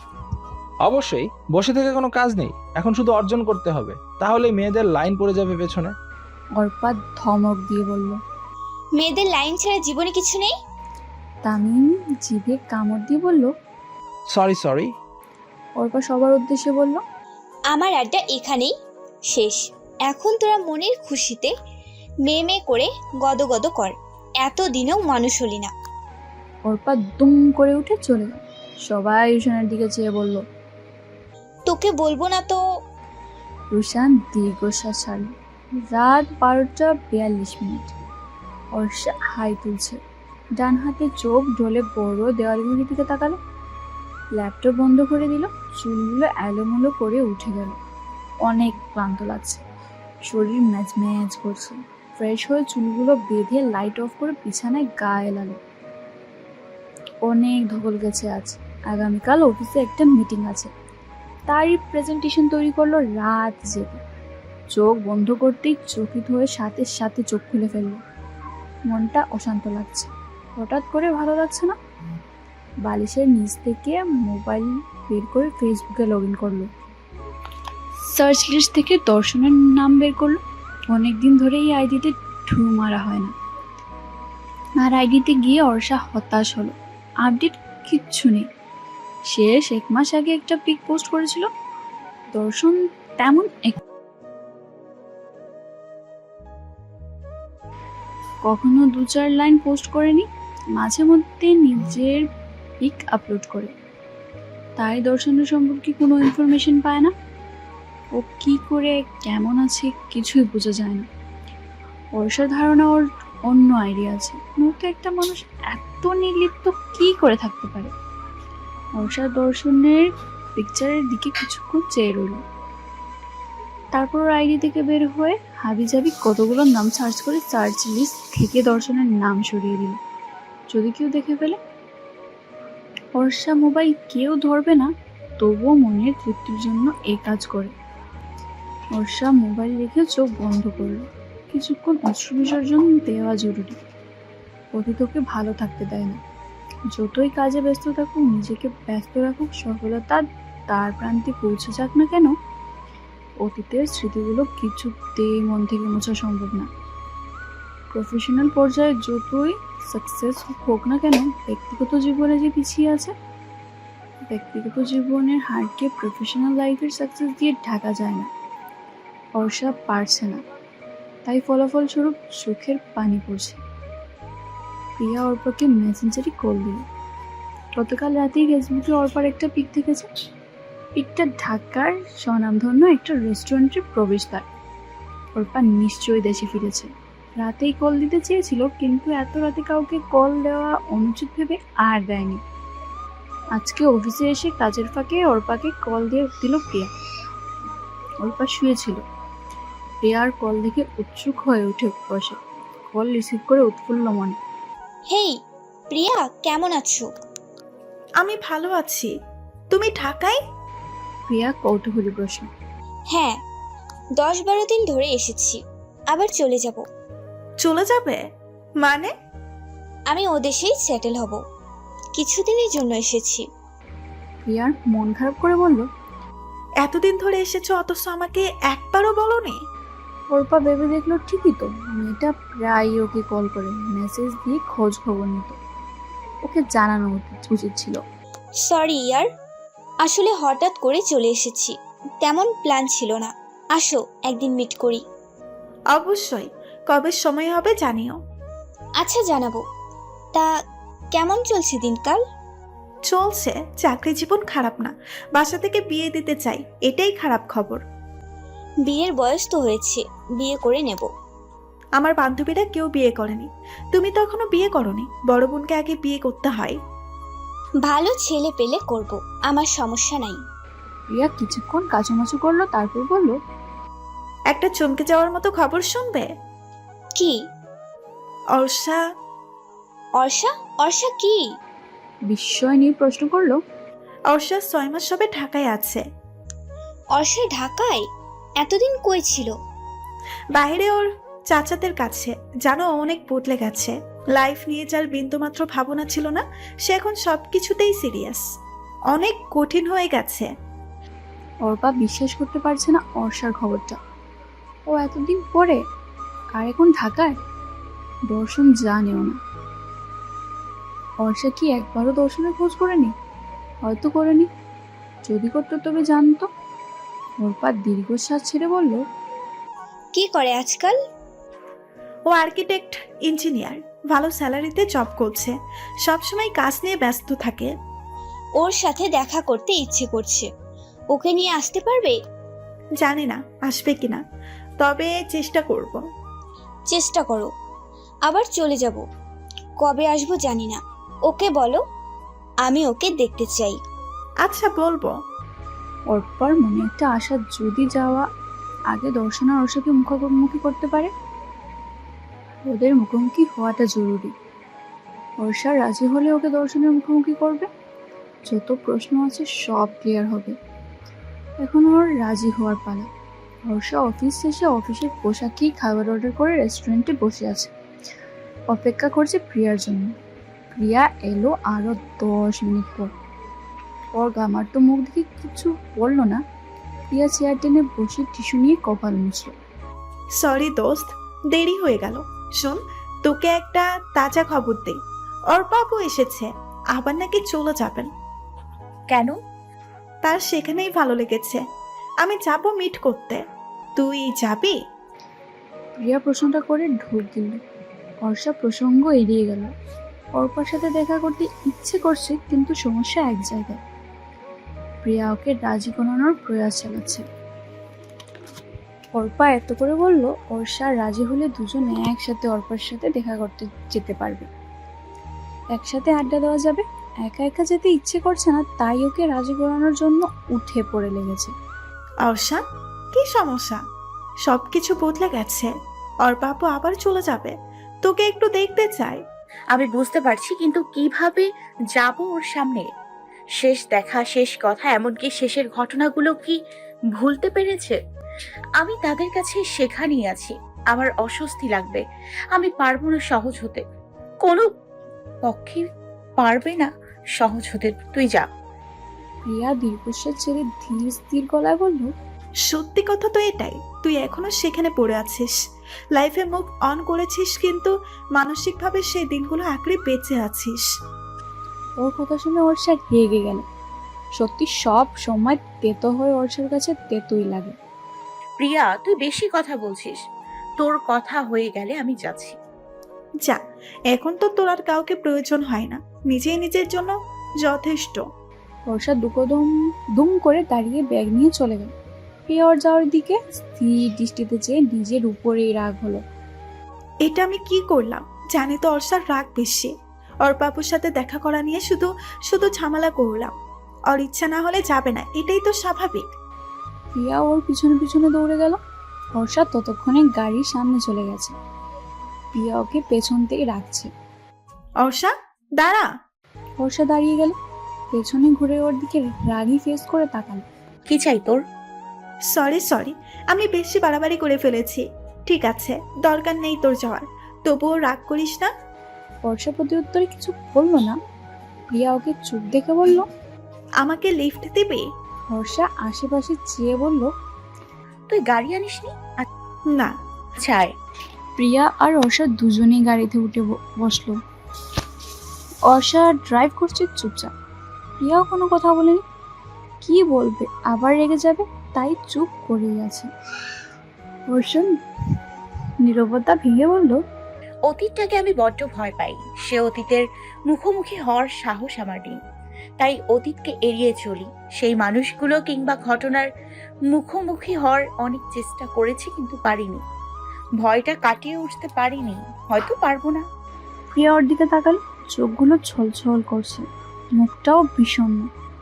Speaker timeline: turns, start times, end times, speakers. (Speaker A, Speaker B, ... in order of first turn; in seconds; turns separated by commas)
Speaker A: 0.8-5.9, Speaker B: 6.6-8.2, Speaker C: 9.0-10.5, Speaker B: 11.4-13.5, Speaker A: 14.3-14.9, Speaker B: 15.8-17.0, Speaker C: 17.7-18.7, Speaker C: 19.3-21.5, Speaker C: 22.2-25.7, Speaker B: 26.7-30.4, Speaker C: 31.7-32.6, Speaker B: 33.7-35.3, Speaker B: 35.9-38.0, Speaker B: 38.8-40.0, Speaker B: 40.6-43.4, Speaker B: 44.4-47.8, Speaker B: 48.5-49.6, Speaker B: 50.3-55.6, Speaker B: 57.2-60.7, Speaker B: 61.5-64.0, Speaker B: 64.7-68.0, Speaker B: 68.9-71.8, Speaker B: 72.8-76.7, Speaker B: 78.0-80.4, Speaker B: 80.9-83.3, Speaker B: 84.8-88.5, Speaker B: 89.3-91.5, Speaker B: 92.3-93.8, Speaker B: 98.5-102.3, Speaker B: 102.8-103.7, Speaker B: 104.8-107.1, Speaker B: 108.2-111.1, Speaker B: 112.2-117.9, Speaker B: 119.0-122.4, Speaker B: 124.0-130.0, Speaker B: 130.7-131.6, Speaker B: 133.2-137.7, Speaker B: 138.9-143.8, Speaker B: 144.8-146.2, Speaker B: 146.9-152.3, Speaker B: 153.4-156.7, Speaker B: 157.9-163.2, Speaker B: 164.3-168.3, Speaker B: 169.4-170.4, Speaker B: 171.3-173.6, Speaker B: 175.0-176.8, Speaker B: 177.8-180.1, Speaker B: 181.0-184.5, Speaker B: 185.3-192.4, Speaker B: 193.6-196.9, Speaker B: 198.2-199.0, Speaker B: 200.0-202.4, Speaker B: 202.9-204.4, Speaker C: 205.1-205.4, Speaker C: 205.9-207.1, Speaker D: 208.2-209.1, Speaker D: 209.7-210.4, Speaker B: 211.3-212.5, Speaker C: 213.1-213.4, Speaker C: 214.2-216.8, Speaker D: 217.6-218.2, Speaker D: 218.8-219.1, Speaker C: 220.1-221.4, Speaker C: 222.2-223.5, Speaker B: 224.5-225.9, Speaker D: 226.8-229.6, Speaker B: 230.3-235.6, Speaker B: 236.4-238.0, Speaker C: 238.6-239.3, Speaker C: 240.0-245.0, Speaker D: 245.9-248.2, Speaker C: 249.0-249.6, Speaker C: 251.2-252.2, Speaker D: 253.1-257.8, Speaker C: 258.9-261.1, Speaker D: 262.0-266.8, Speaker C: 267.8-270.4, Speaker B: 271.1-273.4, Speaker D: 274.5-276.3, Speaker D: 278.6-279.0, Speaker C: 280.2-281.4, Speaker B: 282.3-283.6, Speaker D: 284.3-286.1, Speaker C: 287.1-288.1, Speaker C: 288.6-289.5, Speaker D: 290.6-298.4, Speaker D: 299.1-300.5, Speaker B: 301.6-304.0, Speaker B: 304.9-305.8, Speaker B: 306.6-307.4, Speaker B: 308.3-309.4, Speaker B: 311.2-313.1, Speaker B: 313.9-314.5, Speaker B: 315.2-316.5, Speaker B: 317.4-319.0, Speaker C: 320.1-321.0, Speaker D: 322.3-327.7, Speaker C: 328.6-330.5, Speaker C: 331.1-332.2, Speaker D: 333.0-334.2, Speaker D: 334.8-336.0, Speaker C: 336.9-337.5, Speaker C: 338.3-339.0, Speaker C: 339.8-341.8, Speaker C: 342.7-343.8, Speaker D: 344.4-345.1, Speaker B: 346.1-348.3, Speaker B: 348.9-351.1, Speaker B: 352.7-354.3, Speaker B: 355.4-357.7, Speaker B: 358.5-360.6, Speaker B: 361.6-363.1, Speaker B: 363.7-367.7, Speaker B: 368.7-370.1, Speaker B: 370.8-373.1, Speaker B: 374.1-376.4, Speaker B: 377.1-379.5, Speaker D: 380.4-385.0, Speaker D: 385.5-388.1, Speaker E: 389.1-389.4, Speaker D: 390.2-391.6, Speaker D: 392.2-393.4, Speaker D: 394.0-394.8, Speaker B: 396.0-397.6, Speaker B: 398.2-399.7, Speaker B: 400.4-403.8, Speaker B: 405.0-407.2, Speaker B: 409.2-414.5, Speaker B: 415.8-421.5, Speaker D: 422.2-422.6, Speaker D: 423.1-423.8, Speaker D: 424.4-425.7, Speaker D: 426.2-429.2, Speaker E: 429.7-432.9, Speaker E: 433.6-436.6, Speaker E: 437.1-438.0, Speaker E: 438.8-443.8, Speaker E: 444.4-444.7, Speaker E: 445.4-445.9, Speaker E: 446.4-448.5, Speaker B: 449.5-452.1, Speaker D: 452.7-455.6, Speaker D: 456.1-460.9, Speaker B: 462.0-463.6, Speaker B: 464.4-467.8, Speaker E: 468.6-470.2, Speaker E: 470.8-472.6, Speaker D: 473.4-478.2, Speaker B: 478.9-481.9, Speaker B: 482.5-486.2, Speaker D: 487.2-493.6, Speaker D: 494.1-496.2, Speaker B: 497.1-498.8, Speaker B: 499.4-501.6, Speaker B: 502.6-504.1, Speaker D: 505.0-506.1, Speaker B: 506.8-507.6, Speaker B: 508.1-510.6, Speaker E: 511.1-511.6, Speaker D: 512.5-518.7, Speaker B: 519.5-521.2, Speaker B: 521.9-523.3, Speaker D: 524.0-525.1, Speaker B: 525.5-527.3, Speaker E: 528.3-529.5, Speaker E: 530.6-530.9, Speaker B: 531.6-534.4, Speaker B: 535.9-537.5, Speaker B: 538.2-539.2, Speaker B: 540.0-543.3, Speaker B: 544.5-545.0, Speaker B: 546.0-547.2, Speaker E: 547.9-552.4, Speaker E: 553.0-556.5, Speaker E: 557.1-560.0, Speaker E: 560.8-563.4, Speaker B: 564.1-566.9, Speaker B: 567.4-568.5